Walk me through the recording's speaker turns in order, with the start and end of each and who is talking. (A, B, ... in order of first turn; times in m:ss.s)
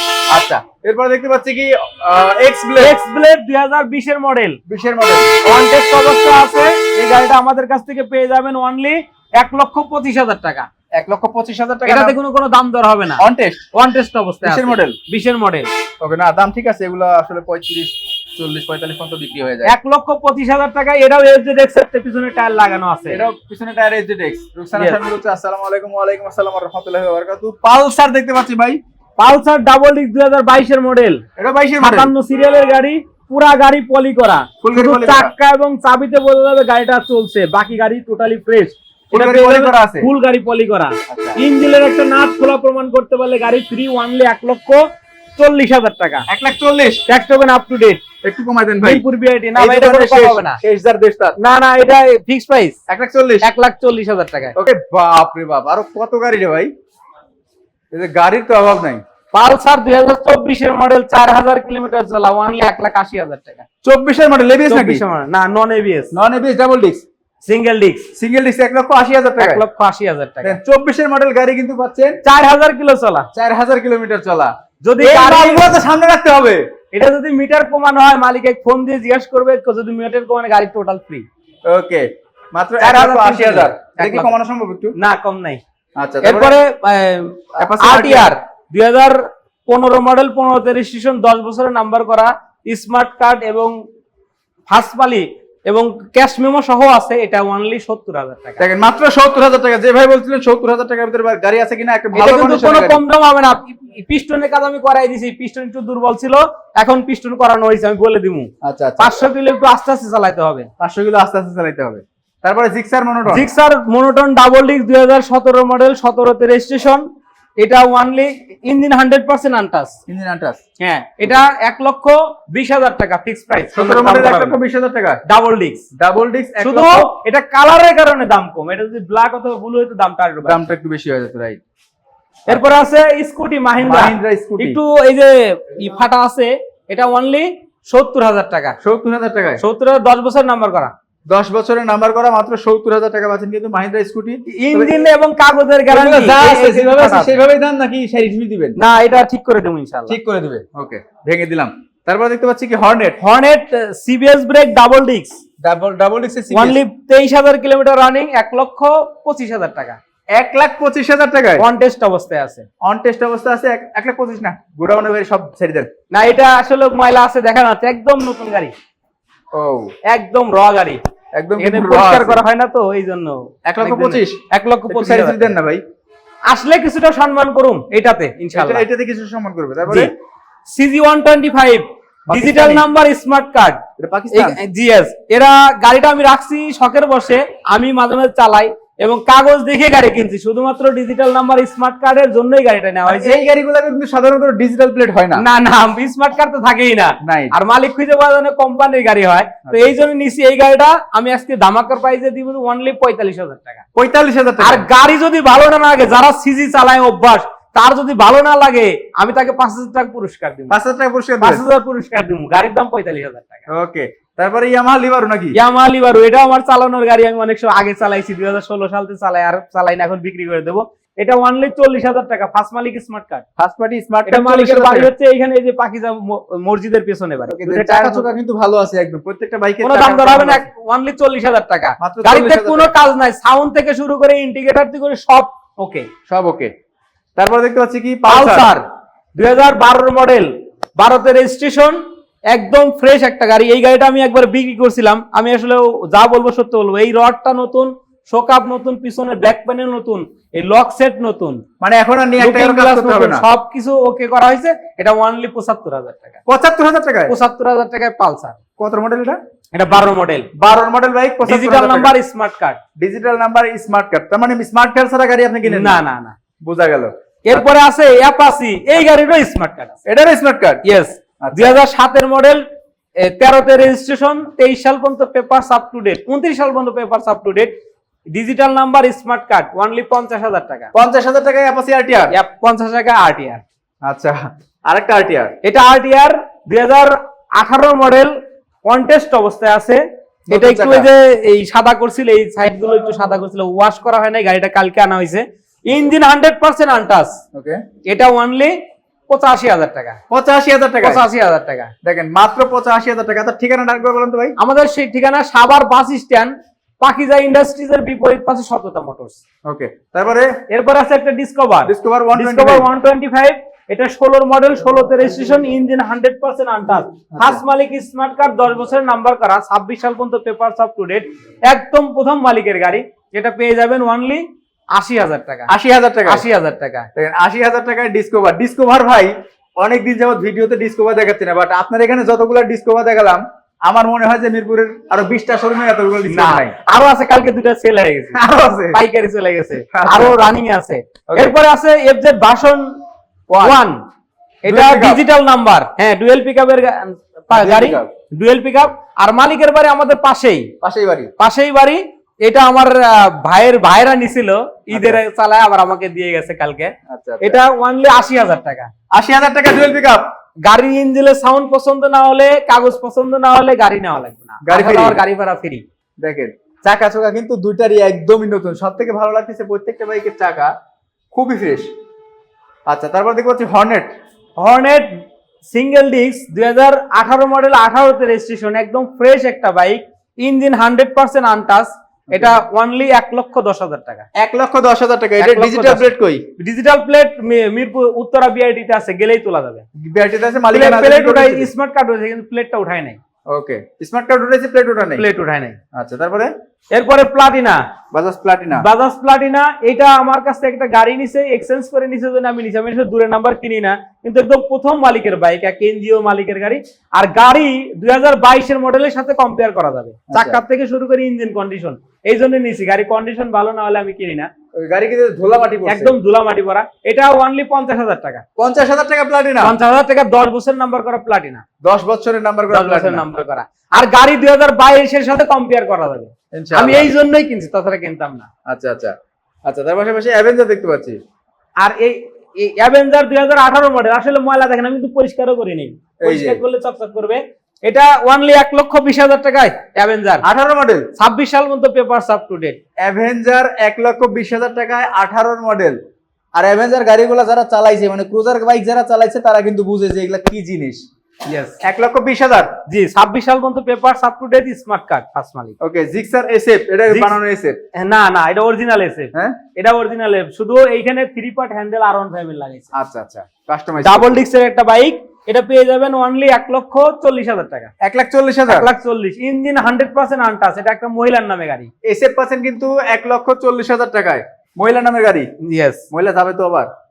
0:00.3-0:03.0 A
0:02.8-0:04.6 B
0:04.7-0:05.3 A
0:05.4-0:10.7 B
0:10.9-0:12.2 A
0:11.8-0:15.7 B
0:13.2-0:13.6 A
0:14.4-0:15.0 A
0:16.0-0:19.7 A
0:19.6-0:23.2 B
0:23.1-0:28.8 A
0:29.2-0:31.2 B
0:31.4-0:32.1 A
0:31.8-0:44.8 B
0:34.6-0:35.3 A
0:39.1-0:40.1 A
0:41.1-0:41.4 A
0:45.4-0:46.3 B
0:46.3-0:47.0 A
0:47.1-0:48.0 B
0:48.2-0:49.0 A
0:48.8-0:50.6 B
0:49.6-0:51.4 A
0:51.4-0:52.8 B
0:52.9-0:53.5 A
0:53.4-0:54.5 B
0:54.6-0:56.7 A
0:57.9-0:59.0 A
0:59.3-1:03.6 B
1:03.8-1:05.0 A
1:04.7-1:06.1 B
1:06.1-1:07.0 A
1:07.4-1:08.1 B
1:08.2-1:09.6 A
1:09.4-1:10.6 B
1:10.4-1:12.2 A
1:12.2-1:13.3 B
1:13.3-1:16.7 A
1:14.8-1:15.8 B
1:16.9-1:21.2 B
1:21.6-1:24.9 A
1:22.8-1:24.3 B
1:25.0-1:25.6 B
1:26.0-1:26.6 A
1:26.2-1:33.7 B
1:27.6-1:28.3 A
1:34.7-1:38.6 B
1:38.6-1:43.0 A
1:42.1-1:50.7 B
1:48.6-1:49.2 A
1:50.8-1:53.5 A
1:53.3-1:57.0 B
1:57.6-2:00.0 B
2:00.1-2:00.6 A
2:00.8-2:04.6 B
2:03.7-2:05.2 A
2:05.3-2:05.8 B
2:05.9-2:07.1 A
2:06.6-2:10.7 B
2:10.4-2:11.6 A
2:12.5-2:18.8 B
2:13.8-2:14.8 A
2:18.8-2:19.6 A
2:19.6-2:20.9 B
2:21.3-2:25.0 A
2:24.5-2:27.4 B
2:25.9-2:28.8 A
2:28.8-2:30.2 B
2:30.1-2:33.2 A
2:33.2-2:35.4 B
2:35.6-2:36.8 A
2:36.5-2:40.0 B
2:40.4-2:41.6 A
2:41.6-2:42.7 B
2:42.8-2:45.9 A
2:46.1-2:48.7 B
2:49.5-2:49.9 A
2:50.0-2:51.0 B
2:51.3-2:52.4 A
2:51.6-2:55.5 B
2:53.6-2:55.8 A
2:56.5-2:58.8 B
2:58.5-3:00.1 A
2:59.9-3:00.1 B
3:00.7-3:13.4 B
3:02.3-3:02.8 A
3:04.0-3:04.6 A
3:13.1-3:15.4 A
3:15.3-3:23.8 B
3:17.2-3:17.5 A
3:19.7-3:19.9 A
3:24.0-3:24.9 A
3:24.6-3:30.8 B
3:30.7-3:31.6 A
3:31.4-3:33.6 B
3:33.7-3:35.6 A
3:35.5-3:43.4 B
3:43.6-3:45.1 A
3:44.3-3:48.3 B
3:47.5-3:50.6 A
3:49.8-3:56.1 B
3:52.0-3:52.9 A
3:56.3-3:56.7 A
3:57.4-3:58.7 A
3:58.3-3:58.8 B
3:59.4-4:11.6 B
4:11.8-4:13.4 A
4:12.4-4:16.4 B
4:16.5-4:17.3 A
4:17.3-4:18.6 B
4:18.8-4:19.4 A
4:19.7-4:20.5 B
4:20.6-4:22.1 A
4:21.4-4:22.8 B
4:23.0-4:26.0 A
4:25.6-4:26.4 B
4:26.6-4:27.1 A
4:27.4-4:30.0 B
4:30.0-4:30.8 A
4:30.8-4:32.6 B
4:31.4-4:31.8 A
4:33.2-4:37.7 B
4:38.3-4:40.9 B
4:40.9-4:42.3 A
4:42.3-4:43.6 B
4:44.0-4:45.6 A
4:45.6-4:48.3 B
4:48.8-4:57.4 B
4:50.5-4:51.1 A
4:57.5-4:57.8 A
4:58.0-4:58.7 B
4:59.3-5:00.2 B
5:00.3-5:01.2 A
5:01.0-5:01.9 B
5:02.0-5:04.5 A
5:04.6-5:09.4 B
5:09.6-5:10.6 A
5:10.7-5:25.7 B
5:11.8-5:12.9 A
5:17.3-5:17.6 A
5:25.7-5:26.4 A
5:26.2-5:27.1 B
5:27.2-5:36.8 A
5:36.3-5:38.4 B
5:38.3-5:39.0 A
5:38.9-5:42.9 B
5:39.9-5:40.4 A
5:41.3-5:41.5 A
5:43.5-5:43.8 A
5:43.6-5:44.0 B
5:44.6-5:50.7 B
5:44.7-5:45.2 A
5:47.5-5:48.1 A
5:50.8-5:51.3 A
5:51.4-5:58.9 B
5:54.9-5:55.2 A
5:57.1-5:57.6 A
5:59.1-6:00.2 A
6:00.6-6:05.8 B
6:04.6-6:05.2 A
6:06.2-6:10.7 A
6:11.3-6:11.9 A
6:12.9-6:14.1 A
6:14.6-6:24.3 B
6:24.3-6:26.4 A
6:25.4-6:26.1 B
6:26.6-6:29.8 B
6:30.0-6:31.7 A
6:30.7-6:33.2 B
6:33.5-6:35.2 A
6:35.1-6:35.8 B
6:35.9-6:36.5 A
6:36.9-6:37.8 B
6:38.1-6:38.8 A
6:38.7-6:54.5 B
6:50.3-6:50.6 A
6:54.8-6:56.1 A
6:55.8-6:58.4 B
6:58.6-6:59.8 A
6:59.6-7:01.6 B
7:01.8-7:03.2 A
7:02.7-7:08.5 B
7:06.5-7:07.1 A
7:08.6-7:09.1 A
7:09.6-7:11.2 A
7:11.8-7:20.4 B
7:16.2-7:16.6 A
7:20.4-7:21.1 A
7:21.2-7:22.8 B
7:23.0-7:26.0 A
7:26.6-7:31.0 A
7:31.4-7:31.7 B
7:31.8-7:32.7 A
7:32.9-7:35.8 B
7:35.8-7:37.8 A
7:37.1-7:37.3 B
7:37.9-7:42.9 B
7:42.9-7:44.4 A
7:44.0-7:47.9 B
7:48.0-7:48.9 A
7:48.7-7:51.9 B
7:52.0-7:55.5 A
7:55.6-7:56.0 B
7:56.1-7:56.9 A